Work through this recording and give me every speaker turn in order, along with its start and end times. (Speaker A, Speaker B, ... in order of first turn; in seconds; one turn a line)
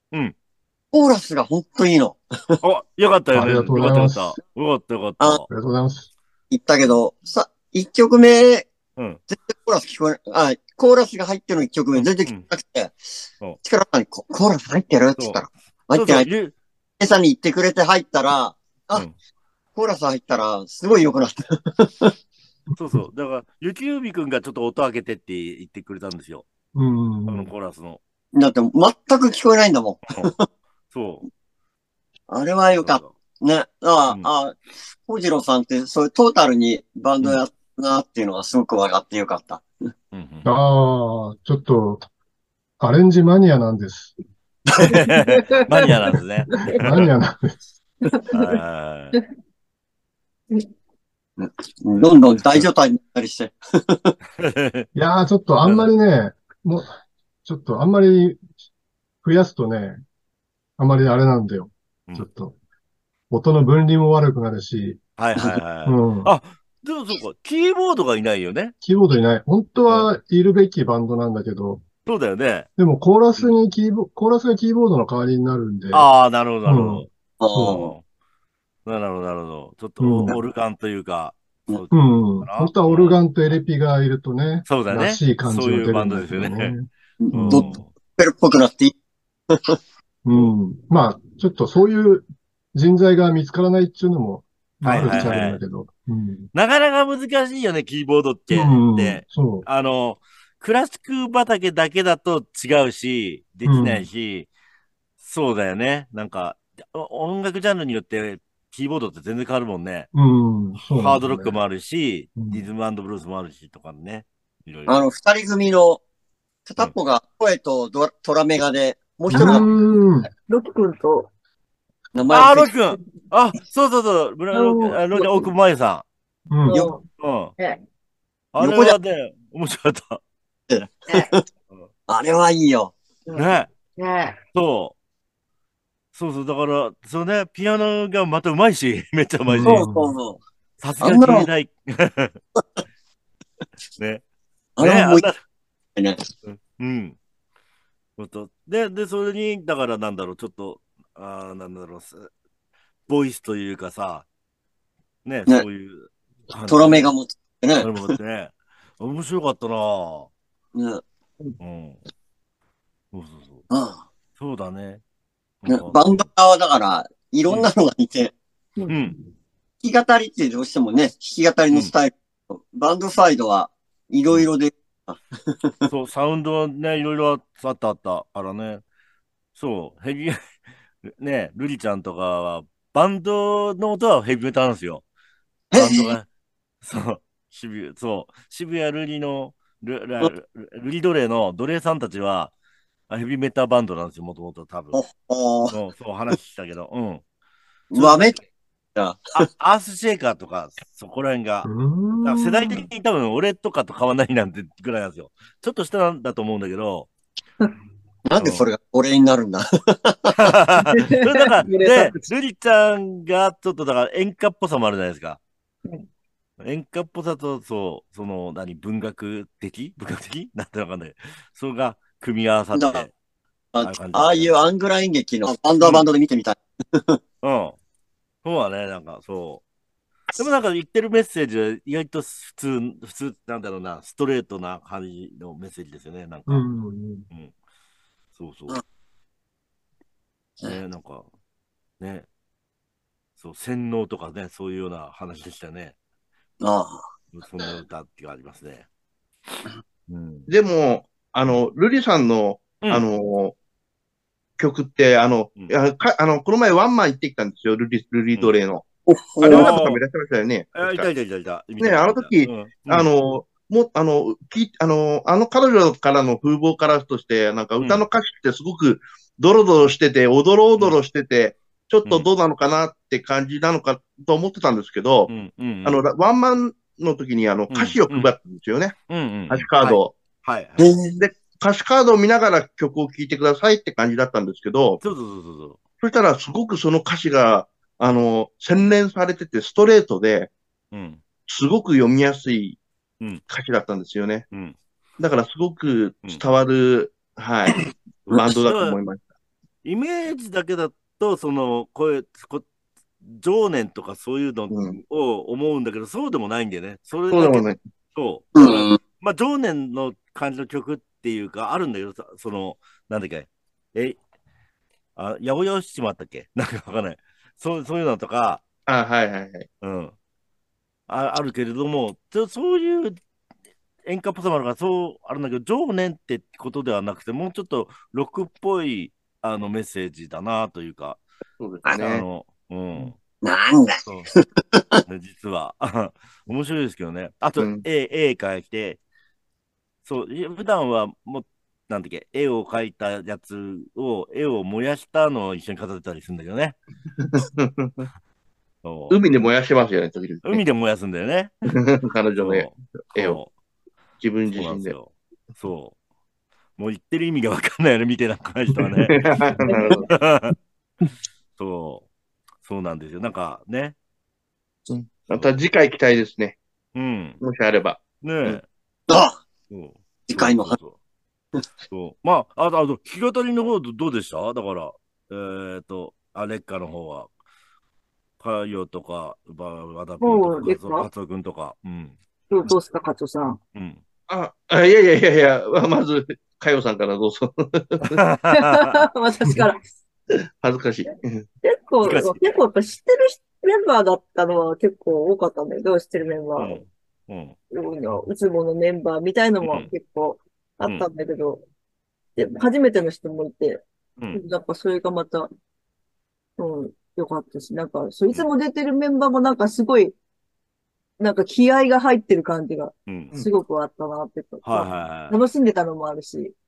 Speaker A: 0.9-2.6
Speaker B: 2.6-5.5
Speaker C: 3.3-4.3
Speaker C: 5.5-6.1
Speaker A: 6.5-8.7
Speaker B: 8.9-9.2
Speaker A: 9.3-13.1
Speaker B: 11.9-12.5
Speaker A: 13.6-16.3
Speaker B: 15.2-16.5
Speaker A: 17.0-19.1
Speaker A: 19.7-22.1
Speaker C: 22.7-23.0
Speaker B: 22.8-26.4
Speaker C: 26.7-27.5
Speaker B: 27.3-28.0
Speaker A: 28.3-30.4
Speaker B: 30.9-31.3
Speaker A: 32.3-39.6
Speaker B: 32.7-33.1
Speaker B: 40.1-40.5
Speaker C: 40.4-42.0
Speaker C: 42.8-44.2
Speaker B: 44.8-47.1
Speaker D: 45.1-45.4
Speaker C: 46.8-47.6
Speaker D: 48.0-48.4
Speaker B: 48.3-49.1
Speaker A: 51.4-54.1
Speaker B: 52.3-52.7
Speaker B: 54.4-54.9
Speaker C: 54.9-58.4
Speaker B: 55.6-55.9
Speaker C: 59.2-60.0
Speaker C: 60.8-62.5
Speaker C: 63.3-65.0
Speaker B: 65.2-68.7
Speaker A: 65.3-65.6
Speaker C: 65.8-66.3
Speaker C: 68.8-71.8
Speaker B: 72.0-72.7
Speaker C: 72.8-76.1
Speaker B: 75.9-77.1
Speaker C: 76.6-77.8
Speaker A: 77.4-77.9
Speaker B: 77.6-78.0
Speaker B: 78.8-83.2
Speaker C: 80.0-80.4
Speaker C: 81.9-87.8
Speaker B: 84.6-86.8
Speaker A: 87.2-88.9
Speaker B: 87.3-87.9
Speaker A: 89.5-89.8
Speaker C: 90.2-96.5
Speaker B: 94.8-95.6
Speaker B: 96.5-104.5
Speaker C: 98.5-99.7
Speaker C: 103.6-104.1
Speaker B: 105.2-110.1
Speaker C: 110.1-111.6
Speaker B: 110.8-115.0
Speaker C: 112.3-112.7
Speaker A: 114.9-116.0
Speaker A: 116.7-119.7
Speaker C: 119.3-120.3
Speaker B: 119.3-119.6
Speaker D: 120.5-121.3
Speaker A: 122.1-122.7
Speaker B: 122.3-126.0
Speaker D: 124.5-125.5
Speaker C: 126.5-126.9
Speaker D: 126.7-127.0
Speaker B: 127.2-127.5
Speaker B: 128.5-130.2
Speaker A: 128.6-128.9
Speaker A: 130.7-131.4
Speaker A: 132.1-132.9
Speaker D: 133.2-134.4
Speaker B: 133.3-133.7
Speaker B: 134.5-134.9
Speaker B: 136.1-139.9
Speaker C: 139.5-140.1
Speaker A: 139.6-140.4
Speaker B: 140.8-142.4
Speaker A: 141.0-141.5
Speaker B: 144.0-144.2
Speaker A: 144.8-145.2
Speaker B: 144.8-145.4
Speaker A: 145.9-146.3
Speaker B: 146.4-147.2
Speaker B: 148.2-152.3
Speaker B: 153.1-154.3
Speaker B: 155.2-157.1
Speaker A: 156.6-158.1
Speaker B: 157.8-160.3
Speaker A: 160.7-161.0
Speaker B: 161.6-162.0
Speaker B: 163.1-163.7
Speaker A: 163.7-164.0
Speaker B: 164.3-165.0
Speaker B: 165.6-166.2
Speaker A: 165.6-168.3
Speaker D: 168.8-169.1
Speaker B: 168.9-169.1
Speaker A: 169.8-175.9
Speaker B: 175.9-178.8
Speaker B: 179.5-180.4
Speaker B: 181.0-185.0
Speaker A: 185.7-186.2
Speaker B: 185.7-186.3
Speaker B: 186.8-192.5
Speaker B: 193.1-195.0
Speaker A: 194.9-195.8
Speaker B: 195.7-197.2
Speaker A: 197.9-198.4
Speaker B: 197.9-198.4
Speaker A: 198.9-199.5
Speaker B: 199.3-201.7
Speaker C: 201.6-202.8
Speaker B: 202.2-207.1
Speaker A: 208.2-210.5
Speaker B: 208.4-208.7
Speaker B: 210.3-215.4
Speaker D: 210.8-212.2
Speaker B: 216.6-223.1
Speaker A: 222.7-223.1
Speaker A: 223.7-227.2
Speaker B: 223.8-224.5
Speaker B: 225.8-226.1
Speaker B: 227.4-227.8
Speaker B: 228.4-229.6
Speaker B: 230.3-236.7
Speaker C: 236.5-237.3
Speaker B: 238.3-238.8
Speaker B: 240.6-241.3
Speaker B: 242.0-242.2
Speaker B: 243.4-245.9
Speaker A: 246.6-247.0
Speaker B: 247.3-248.9
Speaker B: 250.1-250.5
Speaker E: 250.5-253.5
Speaker B: 252.8-253.1
Speaker E: 254.6-258.9
Speaker A: 259.1-259.8
Speaker E: 259.4-261.1
Speaker B: 259.5-260.0
Speaker B: 260.7-263.1
Speaker E: 261.8-275.3
Speaker B: 267.8-268.0
Speaker B: 275.3-276.0
Speaker E: 275.8-278.9
Speaker B: 277.7-278.3
Speaker B: 279.1-280.9
Speaker E: 279.5-280.1
Speaker A: 280.8-281.2
Speaker E: 281.2-285.0
Speaker B: 285.0-285.8
Speaker E: 286.0-290.5
Speaker B: 290.9-291.2
Speaker E: 291.5-292.8
Speaker E: 293.5-294.5
Speaker B: 294.5-294.8
Speaker E: 295.2-297.8
Speaker E: 298.3-299.2
Speaker B: 298.3-299.0
Speaker B: 299.8-302.6
Speaker B: 303.2-314.2
Speaker E: 304.7-305.0
Speaker E: 307.3-307.8
Speaker A: 308.5-309.0
Speaker B: 315.1-318.6
Speaker E: 318.9-319.6
Speaker B: 319.8-320.1
Speaker B: 321.1-323.1
Speaker B: 324.0-331.2
Speaker E: 331.6-332.2
Speaker B: 332.0-333.2
Speaker A: 333.4-335.0
Speaker B: 335.0-339.0
Speaker E: 337.6-337.8
Speaker B: 340.0-346.8
Speaker E: 347.2-348.1
Speaker B: 348.8-349.2
Speaker E: 349.1-350.6
Speaker B: 350.4-351.7
Speaker E: 351.7-353.4
Speaker B: 352.4-353.5
Speaker E: 354.2-354.9
Speaker B: 354.4-355.9
Speaker B: 356.8-359.1
Speaker E: 358.8-360.1
Speaker D: 359.6-360.1
Speaker B: 360.0-360.5
Speaker B: 361.6-362.1
Speaker B: 362.6-363.9
Speaker E: 364.9-366.6
Speaker B: 366.9-367.4
Speaker E: 367.4-368.6
Speaker B: 368.2-368.6
Speaker A: 369.1-369.4
Speaker B: 369.7-371.0
Speaker A: 370.3-370.8
Speaker B: 371.9-377.3
Speaker B: 378.4-382.1
Speaker D: 380.2-381.1
Speaker D: 382.5-383.6
Speaker B: 383.7-384.0
Speaker E: 384.3-388.2
Speaker B: 388.1-389.1
Speaker D: 388.5-389.8
Speaker E: 390.6-391.4
Speaker D: 391.1-396.8
Speaker B: 392.0-392.6
Speaker B: 396.6-397.6
Speaker D: 397.7-401.6
Speaker B: 399.6-399.9
Speaker D: 402.4-405.5
Speaker D: 406.6-410.1
Speaker D: 411.2-416.6
Speaker B: 413.1-413.3
Speaker B: 414.6-415.4